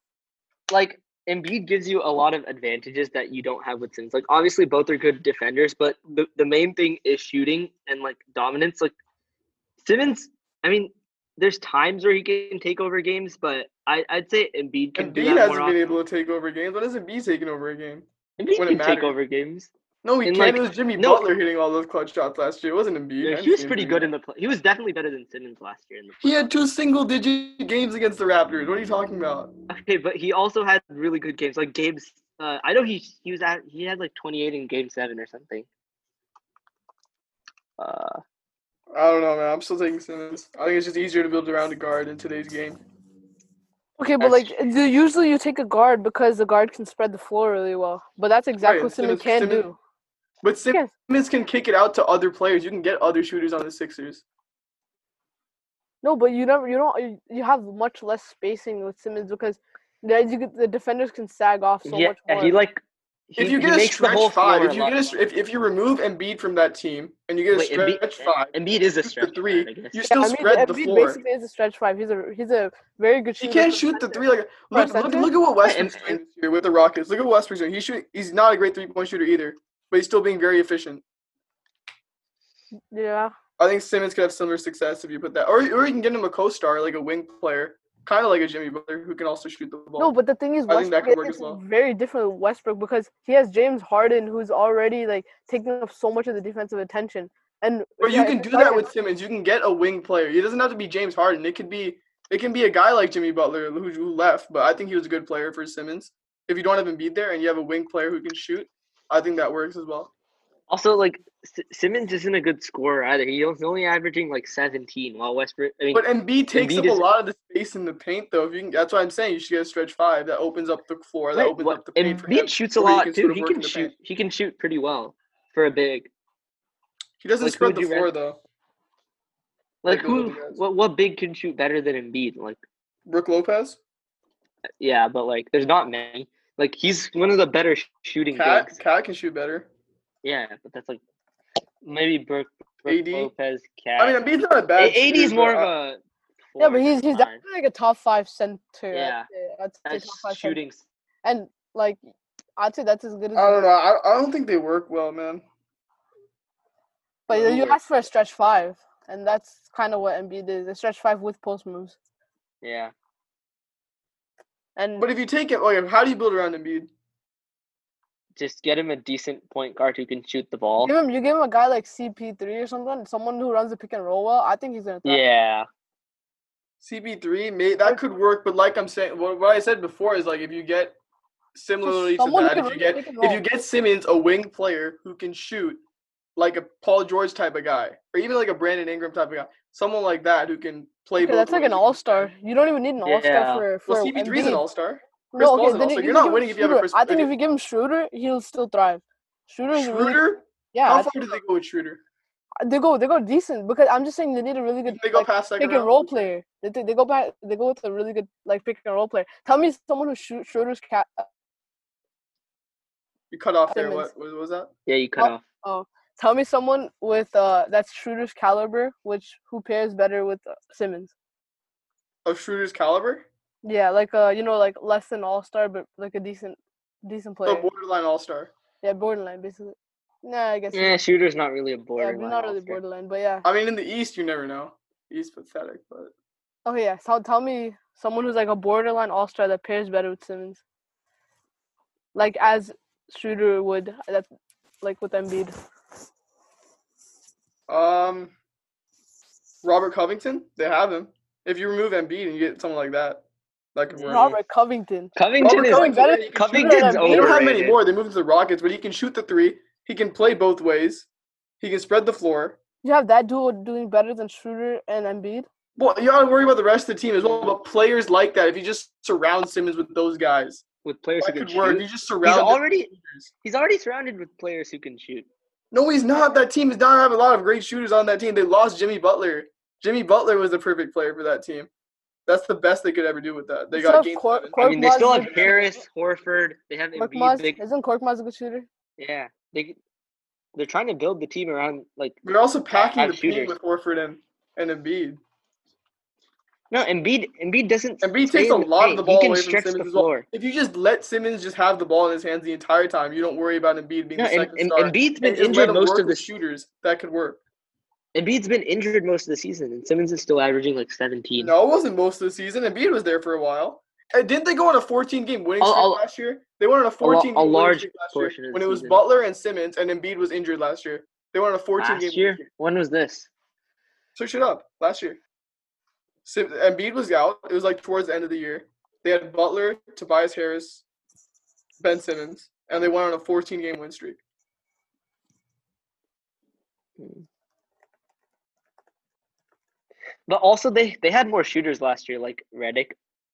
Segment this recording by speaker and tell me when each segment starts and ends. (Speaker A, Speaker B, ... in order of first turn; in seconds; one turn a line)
Speaker A: 0.7-8.9
Speaker A: 9.8-16.0
Speaker B: 14.9-18.1
Speaker A: 18.4-19.7
Speaker B: 18.6-19.1
Speaker B: 20.0-24.1
Speaker A: 20.2-21.2
Speaker A: 23.2-26.4
Speaker B: 26.2-29.5
Speaker A: 29.7-35.7
Speaker A: 37.8-38.2
Speaker B: 38.9-42.8
Speaker C: 44.0-49.8
Speaker A: 44.2-44.5
Speaker B: 48.6-49.7
Speaker B: 50.4-54.2
Speaker C: 56.0-62.5
Speaker A: 61.9-65.0
Speaker B: 63.4-71.2
Speaker A: 67.5-70.0
Speaker C: 70.1-75.3
Speaker B: 73.4-81.0
Speaker A: 75.6-76.2
Speaker C: 82.9-83.3
Speaker B: 83.6-90.1
Speaker C: 90.0-98.9
Speaker B: 90.7-91.6
Speaker B: 98.0-110.1
Speaker A: 110.7-117.0
Speaker B: 115.9-123.9
Speaker A: 121.3-126.1
Speaker B: 127.2-128.4
Speaker A: 127.4-128.1
Speaker A: 129.8-132.6
Speaker B: 129.9-130.6
Speaker B: 133.1-133.8
Speaker A: 134.8-138.8
Speaker B: 138.3-139.7
Speaker A: 140.2-141.0
Speaker A: 141.8-144.2
Speaker B: 142.9-143.3
Speaker B: 144.0-145.7
Speaker A: 144.8-146.0
Speaker A: 146.5-147.4
Speaker C: 146.6-150.6
Speaker A: 148.9-149.3
Speaker A: 149.8-150.8
Speaker C: 151.2-152.0
Speaker C: 152.6-153.7
Speaker B: 153.3-155.4
Speaker C: 157.3-161.9
Speaker B: 157.3-157.8
Speaker A: 162.6-162.9
Speaker C: 164.8-165.1
Speaker B: 165.0-166.9
Speaker A: 168.4-170.9
Speaker C: 170.8-175.2
Speaker A: 175.0-175.7
Speaker B: 176.8-180.9
Speaker B: 181.5-185.8
Speaker C: 181.8-183.4
Speaker B: 186.3-192.3
Speaker C: 191.2-194.6
Speaker A: 193.0-193.7
Speaker B: 193.8-197.3
Speaker C: 195.3-200.2
Speaker B: 199.7-202.0
Speaker C: 200.7-201.4
Speaker C: 202.6-211.3
Speaker B: 204.9-206.2
Speaker B: 213.3-214.7
Speaker C: 213.7-214.1
Speaker A: 214.9-215.4
Speaker C: 215.2-221.1
Speaker B: 222.2-223.2
Speaker C: 223.6-227.7
Speaker B: 227.4-228.5
Speaker C: 228.8-231.0
Speaker A: 230.7-232.8
Speaker C: 232.0-233.4
Speaker B: 233.4-236.1
Speaker C: 236.6-240.6
Speaker C: 242.1-244.3
Speaker C: 244.8-245.5
Speaker B: 247.7-248.3
Speaker B: 249.6-253.2
Speaker B: 253.7-254.3
Speaker A: 253.9-254.4
Speaker C: 254.1-257.3
Speaker A: 255.2-257.8
Speaker B: 255.4-261.1
Speaker B: 261.6-262.6
Speaker C: 262.8-265.5
Speaker B: 265.8-270.6
Speaker A: 267.2-267.6
Speaker A: 270.8-275.3
Speaker B: 271.2-273.3
Speaker B: 275.7-281.7
Speaker B: 282.3-285.6
Speaker C: 283.7-285.8
Speaker A: 284.6-287.6
Speaker C: 286.9-288.7
Speaker A: 289.0-289.8
Speaker A: 290.5-292.2
Speaker B: 292.2-295.2
Speaker A: 292.7-293.6
Speaker A: 296.7-300.3
Speaker B: 298.0-307.4
Speaker A: 304.1-306.3
Speaker A: 308.1-311.5
Speaker B: 311.4-322.4
Speaker A: 315.6-316.0
Speaker A: 317.0-319.0
Speaker A: 321.8-323.3
Speaker B: 324.1-325.2
Speaker B: 326.2-330.8
Speaker B: 331.8-334.2
Speaker A: 337.0-337.2
Speaker A: 340.3-342.9